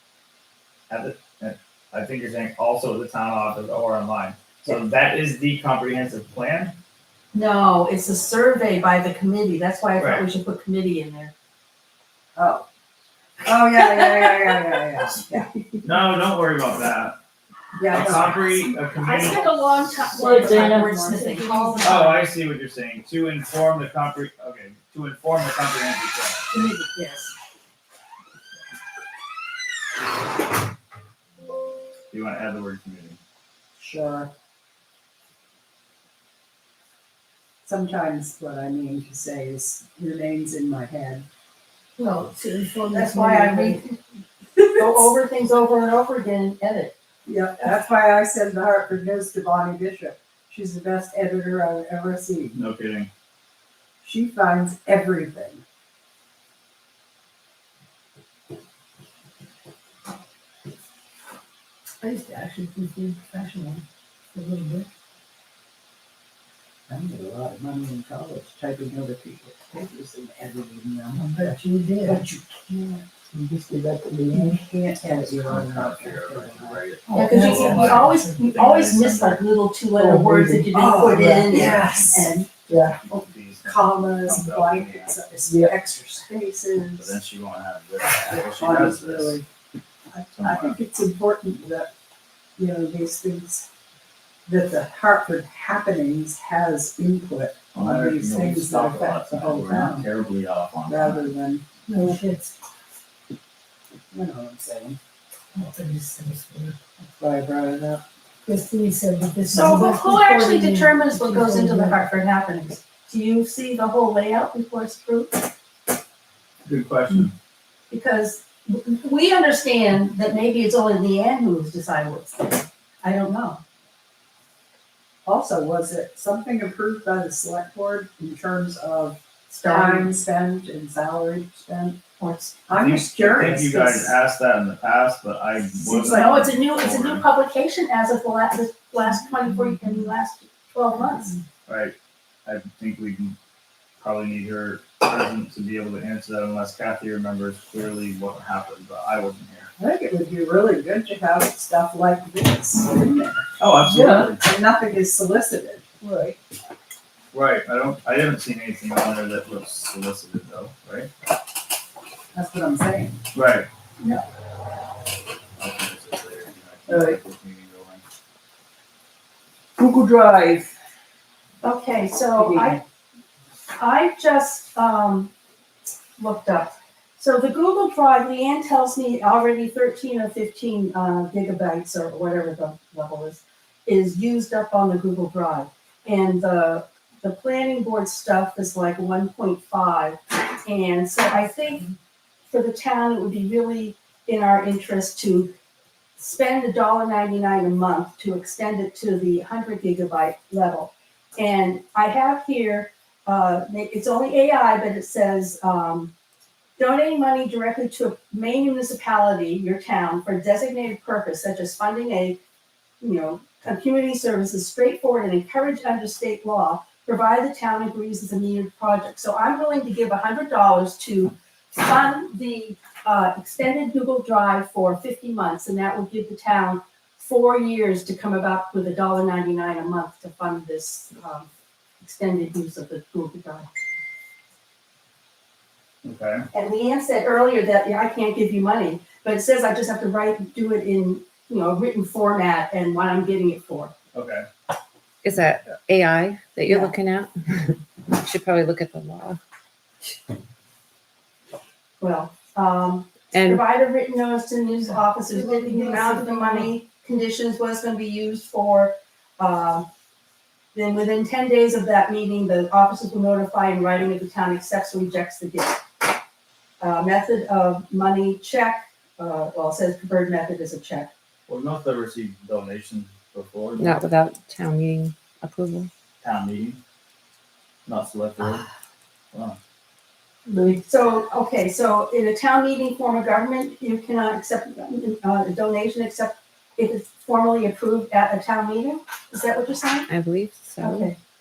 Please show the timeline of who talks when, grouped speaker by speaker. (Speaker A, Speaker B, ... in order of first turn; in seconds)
Speaker A: 0.9-6.8, 10.0-10.3, 15.8-17.2, 17.9-20.0, 21.8-26.5, 32.1-33.2, 52.5-53.1, 75.0-79.4, 83.0-85.2, 87.0-89.4, 90.2-90.8, 97.7-101.3, 116.6-117.3, 132.8-137.2, 141.7-143.3, 144.0-149.7, 153.6-154.4, 157.3-161.1, 163.3-163.7, 165.6-168.0, 236.0-236.4, 244.1-244.4, 271.5-274.0, 276.2-276.8, 277.9-278.7
Speaker B: 7.3-11.3, 14.0-14.5, 19.0-22.2, 26.5-27.3, 42.9-44.0, 44.5-46.9, 77.1-82.5, 109.5-115.5, 117.9-123.6, 129.5-130.1, 132.2-132.6, 135.8-141.4, 171.6-172.8, 173.8-175.3, 176.2-191.9, 192.5-195.5, 196.2-206.1, 206.8-212.4, 213.0-231.5, 232.0-233.7, 236.5-243.9, 252.0-259.9, 260.7-265.8, 266.8-271.1, 280.7-290.1, 290.8-291.2
Speaker C: 12.3-12.6, 13.4-15.5, 17.8-18.4, 20.0-22.0, 33.8-34.3, 37.6-41.2, 47.2-52.6, 54.0-55.6, 66.9-73.1, 74.3-77.9, 80.7-82.4, 83.6-87.2, 88.0-89.5, 90.4-91.9, 92.6-93.7, 94.5-100.1, 100.9-102.1, 104.1-105.0, 107.0-108.0, 125.2-132.0, 132.7-134.1, 149.8-153.5, 154.2-155.9, 162.3-163.2
Speaker D: 20.2-21.8, 42.0-43.8, 62.0-63.8, 64.3-64.9, 71.3-72.2, 77.1-78.1, 101.9-102.5, 105.5-106.7, 108.5-112.1, 156.0-156.3, 255.3-256.7
Speaker E: 73.3-74.6, 80.0-81.5, 82.7-83.0, 85.5-85.7, 153.9-154.2, 166.9-167.2, 169.8-170.7
Speaker F: 245.2-249.4, 253.3-253.6, 273.8-275.9, 290.1-291.1